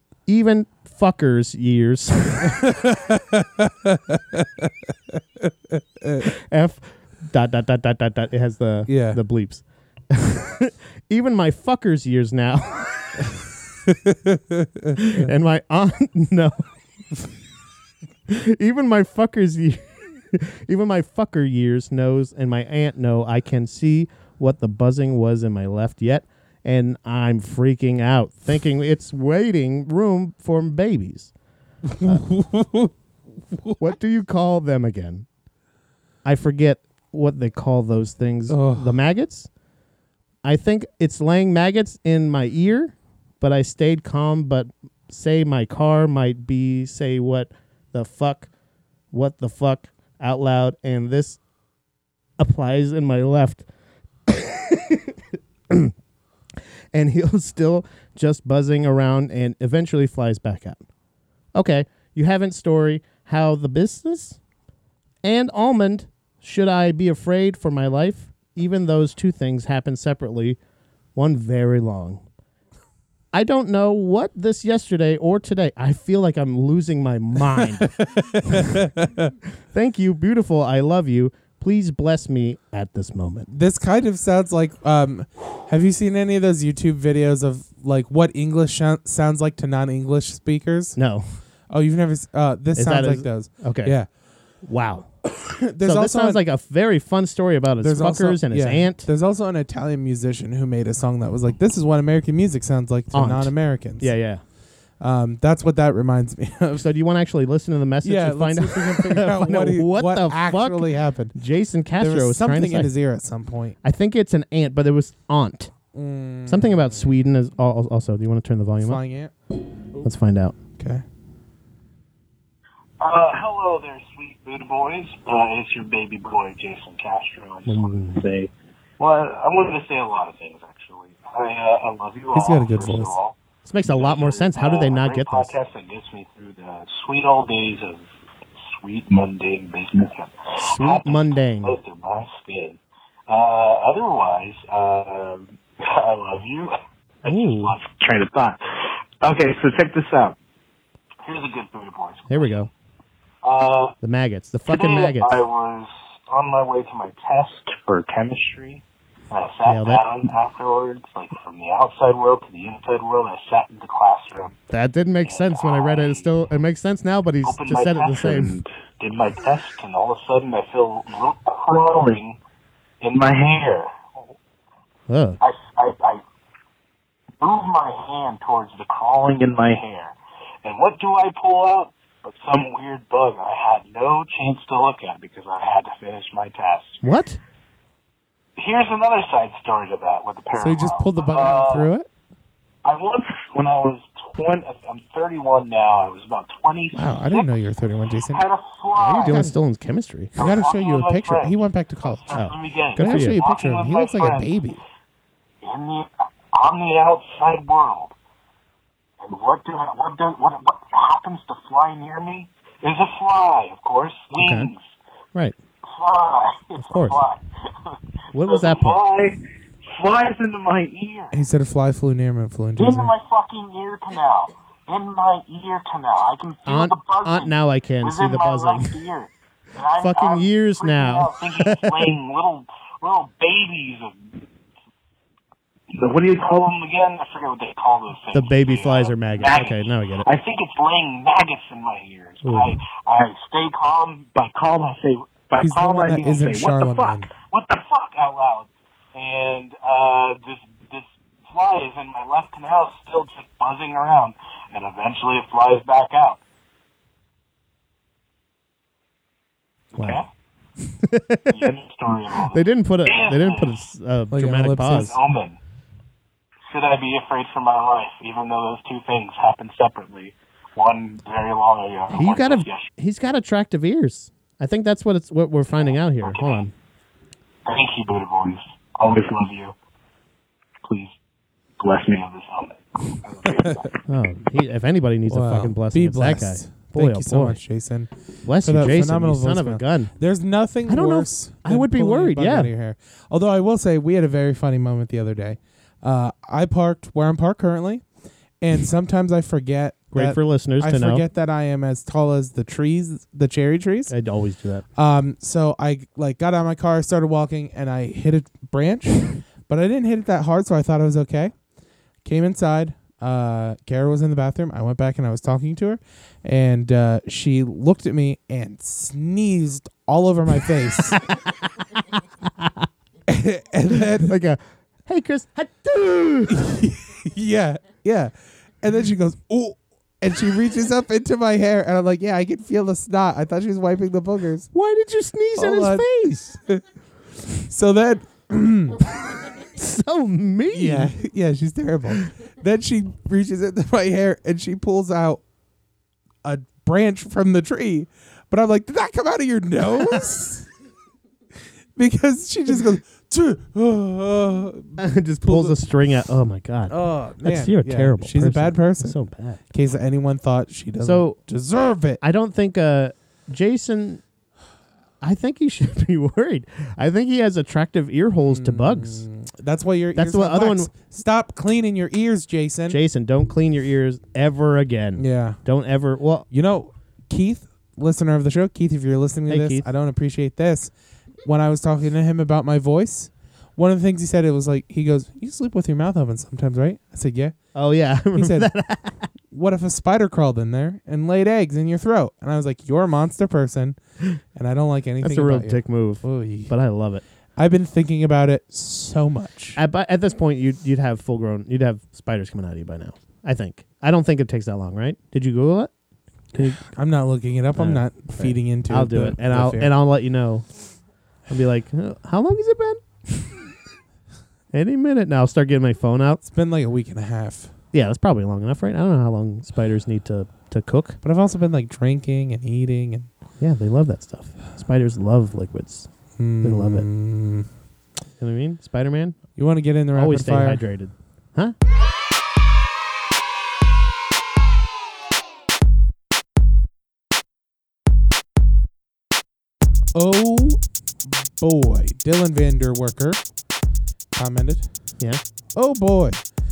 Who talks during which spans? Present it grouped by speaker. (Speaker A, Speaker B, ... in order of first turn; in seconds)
Speaker A: 0.3-2.7, 6.2-13.3, 14.9-16.7, 18.3-31.3, 33.8-35.2, 36.2-39.5, 40.4-48.5, 49.1-51.4, 52.4-53.6, 54.3-55.9, 56.9-60.8, 61.5-64.4, 65.2-70.6, 71.1-72.2, 73.3-77.9, 78.4-78.8, 79.7-83.5, 91.0-91.2, 92.8-94.0, 94.6-95.1, 95.8-99.1, 103.1-104.4, 106.8-112.9, 113.8-115.7, 116.5-119.0, 120.0-120.5, 127.7-128.2, 133.6-135.5, 140.6-141.8, 147.2-147.7, 152.3-152.7, 154.0-155.4, 159.7-160.0, 164.7-168.5, 175.1-175.4, 187.0-187.4, 198.9-200.3, 202.3-203.4, 214.4-214.7, 216.8-217.2, 218.3-219.0, 226.7-228.9, 230.0-232.1, 238.3-240.3, 242.4-242.8, 259.9-260.2, 260.8-261.7, 262.5-265.1, 272.1-276.7, 284.1-287.6, 288.4-290.1, 290.9-292.7, 300.1-301.2, 304.1-304.8, 321.1-322.9, 323.9-326.8, 334.7-336.5, 339.6-341.1, 355.0-359.6, 361.0-361.4, 362.2-364.2, 365.2-369.2, 370.1-370.9, 372.9-376.5, 379.5-379.9, 387.7-389.3, 395.2-397.2, 399.8-405.9, 406.5-406.9, 407.7-410.7, 411.5-413.7, 414.7-416.4, 417.9-421.2, 423.6-426.1, 426.6-427.1, 428.4-429.4, 430.1-431.7
Speaker B: 2.4-6.3, 8.9-9.2, 13.9-15.3, 31.9-32.9, 38.5-39.0, 77.6-79.3, 83.5-91.0, 91.7-94.1, 95.4-96.4, 97.8-104.1, 105.0-106.8, 108.0-111.3, 112.0-113.8, 115.9-117.2, 118.8-119.3, 120.8-121.0, 132.3-133.2, 190.6-192.1, 196.9-198.4, 199.3-199.5, 200.4-202.4, 203.0-204.8, 221.3-223.1, 245.6-247.3, 264.3-265.1, 283.5-283.8, 285.3-298.0, 298.6-304.1, 304.9-311.5, 312.2-321.2, 323.3-324.3, 326.5-334.7, 335.6-336.8, 337.6-339.1, 340.7-345.4, 346.4-350.7, 351.9-355.8, 356.9-359.2, 359.7-362.2, 368.4-373.0, 375.2-375.6, 376.5-380.9, 381.4-387.6, 388.3-388.7, 389.5-394.0, 394.5-396.7, 397.6-399.8, 406.8-409.9, 416.4-417.7, 421.2-423.3, 426.4-427.7, 429.6-430.8, 440.1-440.8, 441.5-443.4, 444.3-444.9, 445.7-446.4
Speaker C: 123.0-138.1, 138.6-148.6, 149.2-150.3, 151.2-152.7, 153.4-153.9, 154.7-164.6, 165.2-166.3, 167.4-172.4, 173.0-173.9, 175.4-176.2, 177.4-187.0, 188.6-191.9, 192.8-197.5, 198.3-199.4, 200.3-204.6, 205.6-208.1, 209.2-214.8, 215.8-221.3, 222.8-234.4, 235.9-256.4, 260.0-260.3, 261.5-263.9, 264.8-265.6, 266.7-272.9, 275.8-276.6, 277.6-279.7, 280.8-281.1, 281.8-283.9